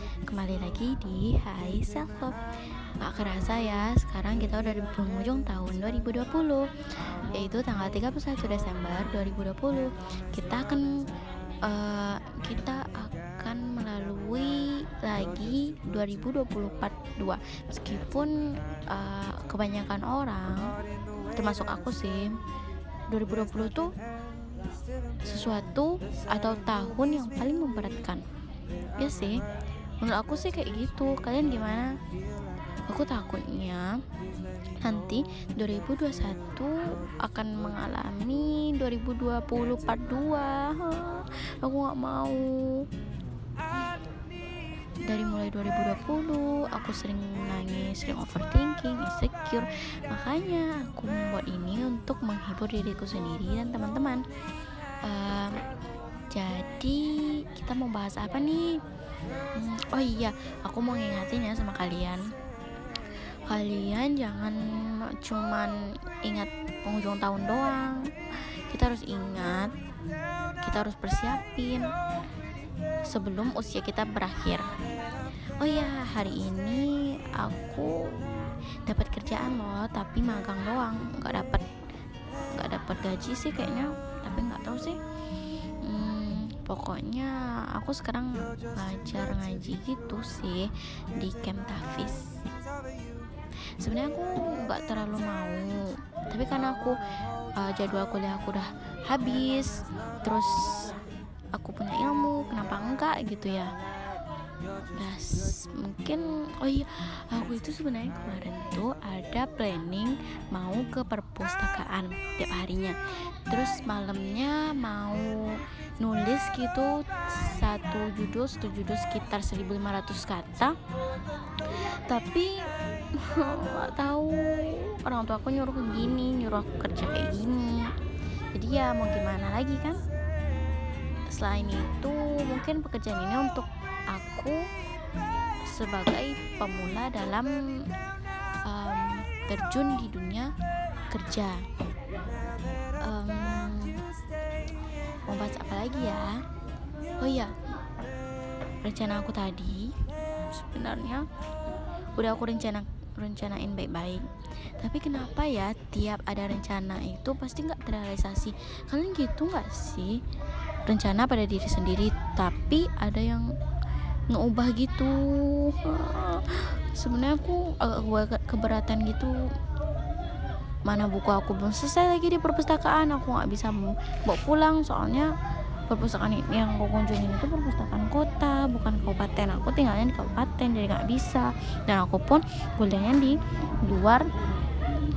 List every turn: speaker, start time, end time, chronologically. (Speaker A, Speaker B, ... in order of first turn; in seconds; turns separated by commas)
Speaker A: 0.3-2.4, Speaker A: 3.0-6.7, Speaker A: 7.3-10.9, Speaker A: 11.7-18.3, Speaker A: 18.9-20.7, Speaker A: 21.4-22.3, Speaker A: 23.1-23.9, Speaker A: 25.3-28.2, Speaker A: 29.0-29.4, Speaker A: 30.0-31.9, Speaker A: 32.9-33.9, Speaker A: 34.8-42.8, Speaker A: 45.1-54.2, Speaker A: 55.1-55.6, Speaker A: 56.3-58.7, Speaker A: 59.6-62.2, Speaker A: 63.5-65.7, Speaker A: 66.2-68.1, Speaker A: 68.7-69.7, Speaker A: 70.7-71.9, Speaker A: 73.1-74.7, Speaker A: 75.6-77.9, Speaker A: 78.9-81.7, Speaker A: 82.5-85.0, Speaker A: 85.8-92.3, Speaker A: 93.8-97.0, Speaker A: 97.6-100.5, Speaker A: 101.5-103.7, Speaker A: 104.9-113.0, Speaker A: 113.5-115.3, Speaker A: 116.0-120.7, Speaker A: 122.1-122.5, Speaker A: 123.2-127.9, Speaker A: 128.5-130.0, Speaker A: 131.3-134.6, Speaker A: 135.7-137.5, Speaker A: 138.7-140.5, Speaker A: 141.1-141.6, Speaker A: 143.1-144.0, Speaker A: 145.3-146.3, Speaker A: 147.2-147.5, Speaker A: 148.8-149.9, Speaker A: 150.5-151.2, Speaker A: 152.2-154.3, Speaker A: 154.8-160.2, Speaker A: 160.9-163.5, Speaker A: 164.3-169.3, Speaker A: 170.9-175.3, Speaker A: 175.9-184.3